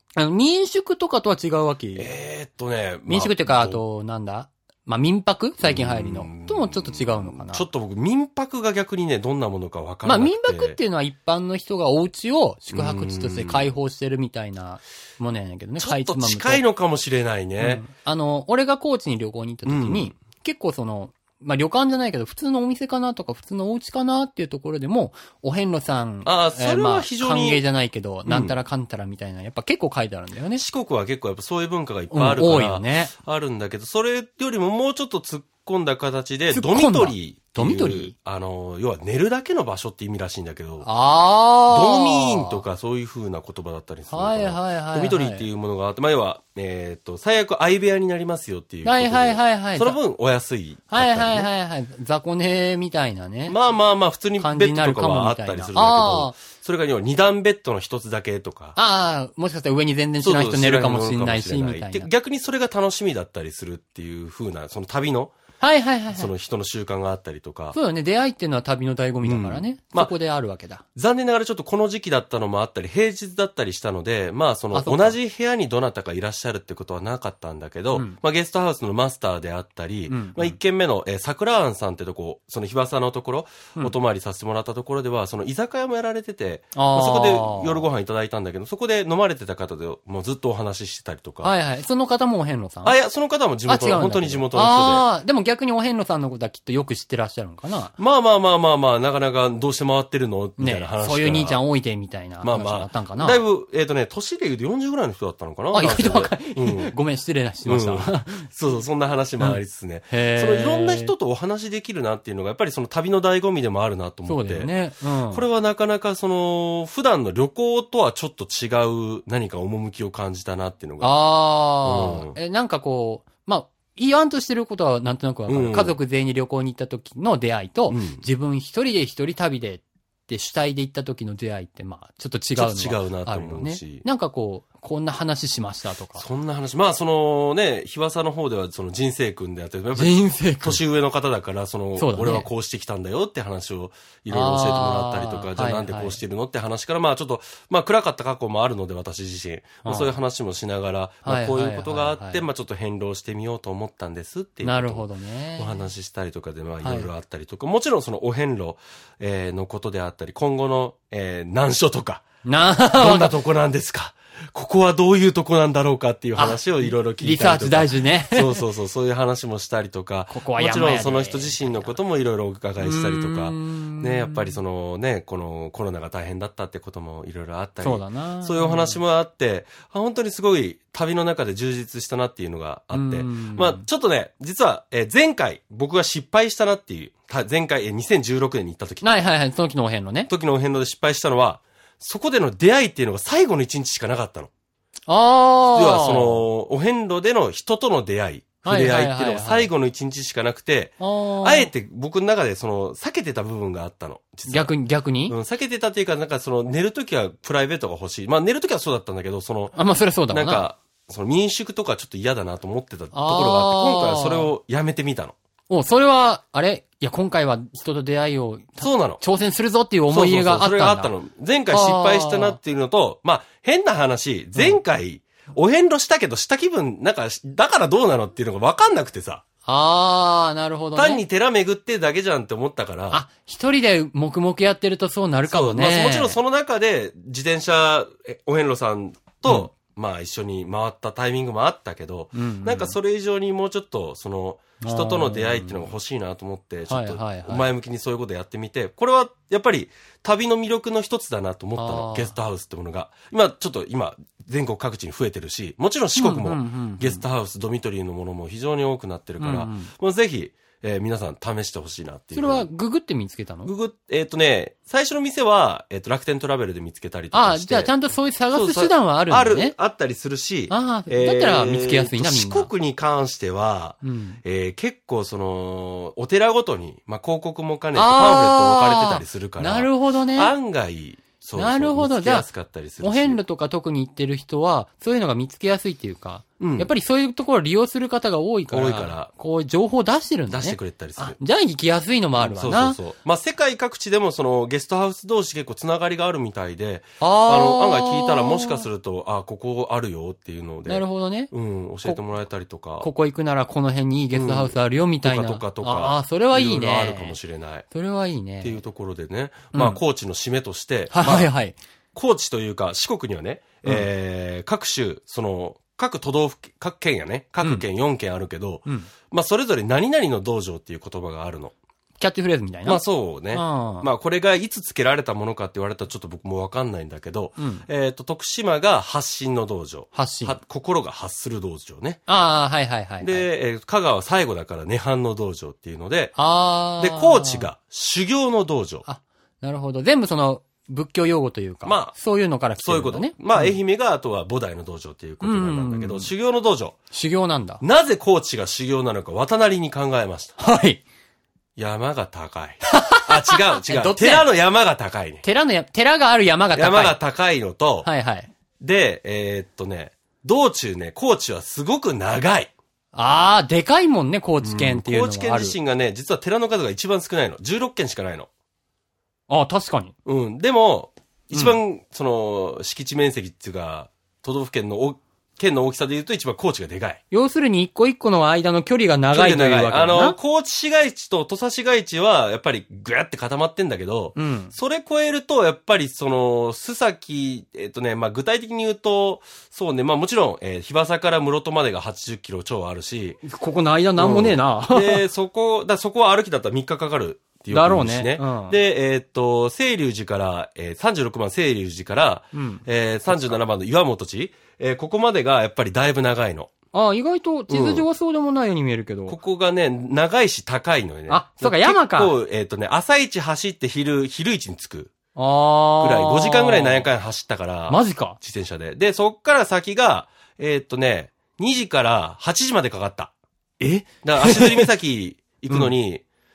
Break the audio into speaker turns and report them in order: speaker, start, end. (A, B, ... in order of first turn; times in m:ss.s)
0:00.2-0:02.1 A
0:02.0-0:03.8 B
0:03.1-0:07.7 A
0:05.6-0:10.8 B
0:10.0-0:16.6 A
0:12.7-0:13.7 B
0:15.8-0:17.8 B
0:17.6-0:30.6 A
0:19.7-0:20.2 B
0:26.2-0:27.6 B
0:28.3-0:28.6 B
0:30.6-0:40.9 B
0:32.1-0:33.1 A
0:36.5-0:38.1 A
0:40.8-0:42.6 A
0:41.7-0:51.5 B
0:44.1-0:45.4 A
0:48.8-0:50.0 A
0:50.9-0:53.6 A
0:53.5-0:58.8 B
0:54.4-0:56.4 A
0:58.8-1:02.1 A
1:00.2-1:05.4 B
1:05.6-1:06.3 A
1:06.1-1:07.8 B
1:07.7-1:10.8 A
1:09.2-1:10.1 B
1:11.0-1:31.5 B
1:14.7-1:15.2 A
1:20.1-1:20.6 A
1:26.8-1:27.8 A
1:31.4-1:33.0 A
1:32.8-1:35.1 B
1:33.7-1:37.9 A
1:38.0-1:41.6 B
1:40.6-1:43.4 A
1:42.4-1:46.9 B
1:45.7-1:48.5 A
1:47.6-1:54.7 B
1:50.1-1:51.1 A
1:54.3-1:55.4 A
1:55.3-2:01.2 B
2:01.0-2:16.2 A
2:01.8-2:02.4 B
2:05.5-2:06.0 B
2:07.9-2:08.2 B
2:12.6-2:14.0 B
2:16.2-2:35.1 B
2:20.0-2:20.8 A
2:22.0-2:22.5 A
2:24.3-2:26.2 A
2:29.8-2:30.1 A
2:31.2-2:32.4 A
2:34.6-2:35.8 A
2:35.6-2:42.2 B
2:36.8-2:37.1 A
2:42.4-2:43.3 A
2:42.9-3:09.1 B
2:46.4-2:48.6 A
2:50.3-2:52.0 A
2:52.8-2:54.6 A
2:57.8-2:59.0 A
3:02.9-3:03.8 A
3:09.0-3:10.3 A
3:10.3-3:14.5 B
3:15.1-3:16.4 A
3:15.7-3:24.7 B
3:18.6-3:19.7 A
3:21.0-3:21.7 A
3:24.5-3:25.4 A
3:25.3-3:29.8 B
3:29.8-3:30.7 A
3:30.3-3:35.4 B
3:33.1-3:34.5 A
3:35.7-3:41.1 A
3:38.8-3:39.2 B
3:40.1-3:49.4 B
3:41.7-3:42.6 A
3:44.6-3:44.8 A
3:49.7-3:51.2 A
3:51.0-3:53.2 B
3:53.1-3:56.4 A
3:55.5-4:22.7 B
4:02.4-4:03.0 A
4:04.8-4:05.9 A
4:06.9-4:07.7 A
4:11.8-4:12.4 A
4:16.2-4:17.2 A
4:19.4-4:19.9 A
4:22.3-4:23.7 A
4:23.6-4:27.9 B
4:27.3-4:29.8 A
4:28.5-4:43.4 B
4:30.7-4:32.7 A
4:34.0-4:34.4 A
4:38.0-4:40.5 A
4:41.6-4:42.5 A
4:43.0-4:53.0 A
4:46.6-4:46.9 B
4:48.7-4:49.3 B
4:50.5-4:51.4 B
4:52.4-5:03.1 B
4:57.2-4:58.8 A
5:00.9-5:01.5 A
5:03.0-5:07.4 A
5:04.3-5:07.9 B
5:07.9-5:08.8 A
5:08.6-5:11.5 B
5:09.7-5:10.0 A
5:11.1-5:11.8 A
5:12.1-5:21.7 B
5:22.2-5:24.1 A
5:22.8-5:32.2 B
5:27.6-5:27.8 A
5:30.1-5:30.6 A
5:32.3-5:33.5 A
5:33.2-5:36.4 B
5:36.4-5:37.7 A
5:37.0-5:39.0 B
5:39.1-5:43.8 A
5:41.8-5:42.1 B
5:42.8-5:47.0 B
5:45.4-5:46.3 A
5:47.1-5:47.8 A
5:47.8-5:50.6 B
5:50.6-5:51.0 A
5:51.8-5:55.4 B
5:52.9-5:54.5 A
5:55.4-5:57.2 A
5:56.8-5:58.1 B
5:58.0-5:58.5 A
5:58.8-6:02.7 B
6:03.1-6:05.8 A
6:04.6-6:08.5 B
6:09.5-6:10.1 A
6:10.2-6:17.2 B
6:17.3-6:20.4 A
6:19.3-6:33.4 B
6:24.4-6:24.7 A
6:33.4-6:35.2 A
6:34.2-6:46.7 B
6:37.7-6:38.8 A
6:42.5-6:43.6 A
6:46.9-6:49.4 A
6:47.7-6:48.1 B
6:49.3-6:55.1 B
6:51.3-6:52.4 A
6:55.4-6:57.1 A
6:56.0-7:03.3 B
6:57.9-6:58.4 A
7:03.8-7:04.9 A
7:04.2-7:06.2 B